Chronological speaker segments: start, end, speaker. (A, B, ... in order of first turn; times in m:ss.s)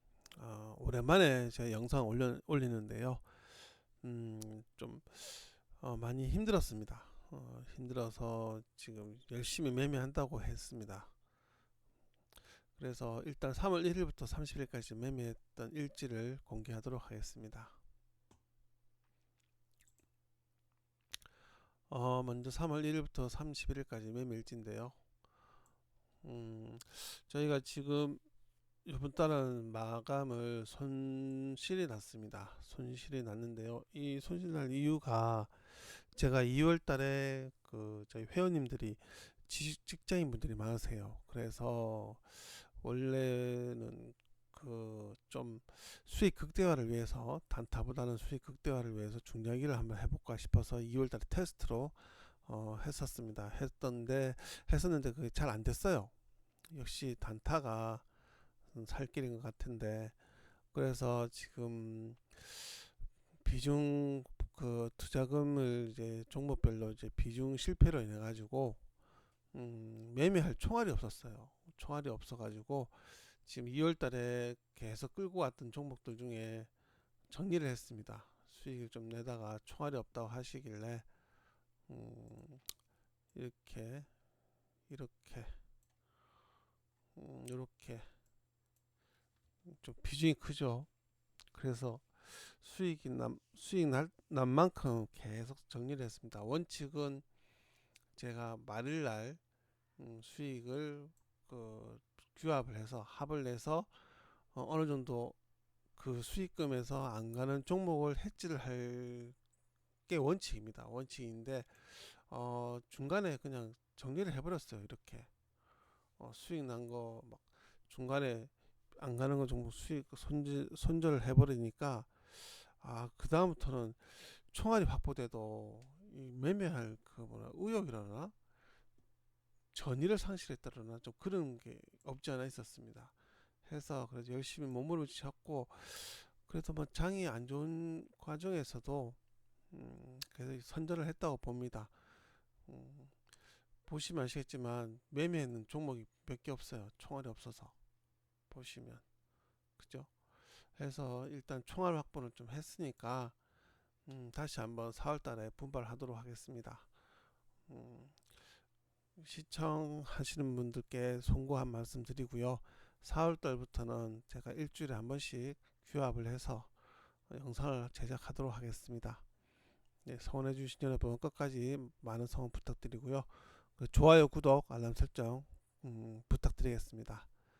0:00.4-0:11.1 A
0:12.7-0:17.8 A
0:21.9-0:25.0 A
0:26.2-0:28.2 A
0:28.8-0:56.1 A
0:56.7-0:58.0 A
0:58.7-1:00.2 A
1:00.7-1:02.9 A
1:03.4-1:08.8 A
1:09.5-1:16.7 A
1:17.3-1:21.1 A
1:21.9-1:22.6 A
1:23.3-1:24.1 A
1:24.9-1:25.6 A
1:27.1-1:28.1 A
1:29.6-1:30.9 A
1:31.5-1:37.2 A
1:38.2-1:39.4 A
1:40.0-1:43.9 A
1:44.5-1:45.4 A
1:46.0-1:49.4 A
1:50.1-1:55.3 A
1:56.2-2:08.3 A
2:09.7-2:19.2 A
2:19.7-2:21.9 A
2:22.6-2:23.1 A
2:23.8-2:27.8 A
2:28.5-2:29.0 A
2:29.8-2:30.1 A
2:30.7-2:33.4 A
2:34.0-2:36.9 A
2:37.7-2:38.2 A
2:39.2-2:46.7 A
2:47.3-2:49.2 A
2:50.0-2:57.3 A